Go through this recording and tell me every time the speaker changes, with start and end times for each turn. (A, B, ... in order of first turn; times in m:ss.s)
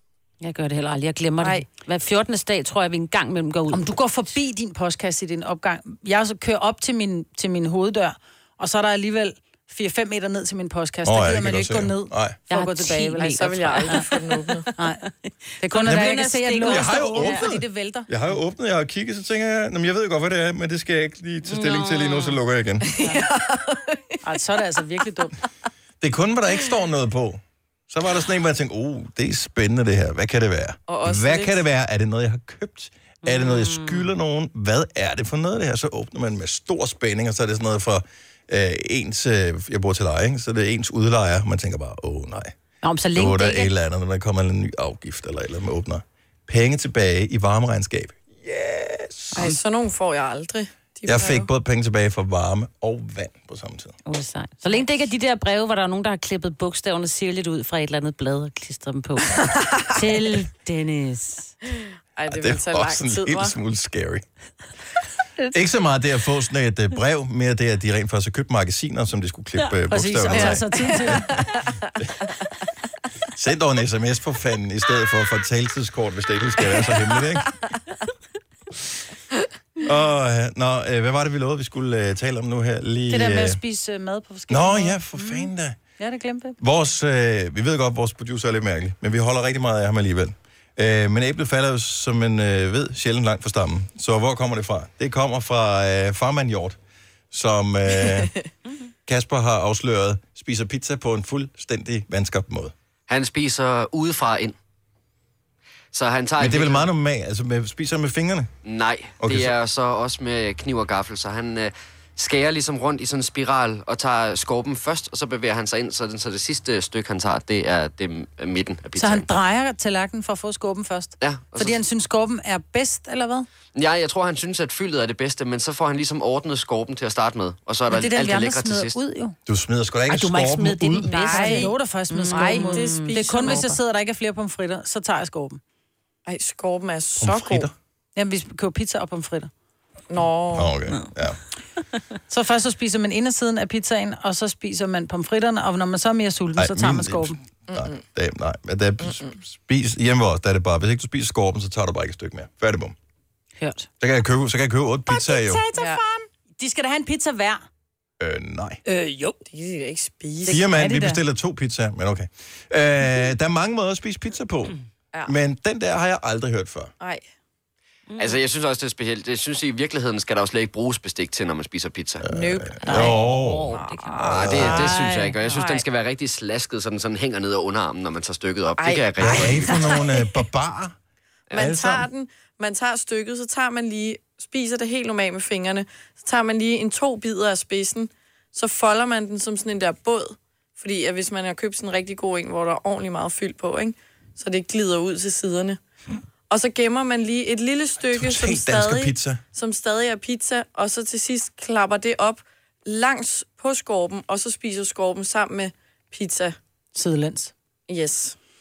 0:00.4-0:03.9 A
0:01.4-0:01.6 B
0:03.7-0:14.0 C
0:11.0-0:12.4 D
0:12.5-0:14.1 A
0:13.2-0:14.7 B
0:14.8-0:15.0 C
0:15.6-0:17.5 A
0:15.6-0:18.1 C
0:15.8-0:22.9 D
0:21.4-0:22.4 A
0:22.8-0:24.2 B
0:24.2-0:25.3 C
0:26.0-0:42.6 D
0:30.9-0:31.6 B
0:33.2-0:34.1 A
0:42.8-0:43.6 A
0:43.1-0:49.5 D
0:49.3-0:51.5 B
0:51.0-0:53.9 D
0:54.0-1:01.5 A
1:02.2-1:03.5 B
1:02.3-1:04.2 D
1:05.5-1:11.4 D
1:09.9-1:11.4 C
1:10.3-1:11.7 B
1:13.3-1:17.5 D
1:19.8-1:23.6 D
1:23.1-1:26.6 C
1:24.5-1:25.8 D
1:26.6-1:36.8 D
1:37.3-1:38.3 D
1:39.0-1:42.7 D
1:43.1-1:44.6 E
1:45.9-1:46.9 E
1:46.4-1:48.5 D
1:48.6-1:59.3 E
1:49.2-1:49.5 D
1:59.0-2:03.5 C
2:01.2-2:01.8 E
2:03.7-2:09.0 E
2:07.9-2:09.3 C
2:09.4-2:11.2 D
2:10.1-2:13.8 A
2:11.2-2:11.7 B
2:11.2-2:15.6 C
2:12.3-2:13.6 B
2:16.2-2:17.7 B
2:17.2-2:17.7 D
2:18.2-2:19.5 C
2:20.1-2:20.7 B
2:20.5-2:21.4 D
2:22.3-2:27.4 C
2:26.6-2:32.9 D
2:27.7-2:28.0 B
2:29.0-2:29.4 B
2:34.0-2:35.6 D
2:35.1-2:37.6 C
2:35.7-2:36.0 B
2:38.2-2:38.8 D
2:38.8-2:39.4 C
2:39.5-2:40.6 B
2:40.4-2:44.7 D
2:40.5-2:41.2 C
2:45.2-2:46.9 D
2:48.1-2:48.4 A
2:48.2-2:52.3 E
2:52.2-2:54.9 D
2:52.3-2:54.8 B
2:52.8-2:54.3 A
2:54.3-2:59.9 E
2:54.5-2:55.3 C
2:55.4-2:55.8 B
2:58.8-3:00.3 B
2:59.2-3:00.9 D
3:01.5-3:02.1 D
3:01.5-3:15.8 B
3:16.5-3:26.6 B
3:18.1-3:19.4 D
3:26.9-3:27.5 C
3:27.9-3:28.4 B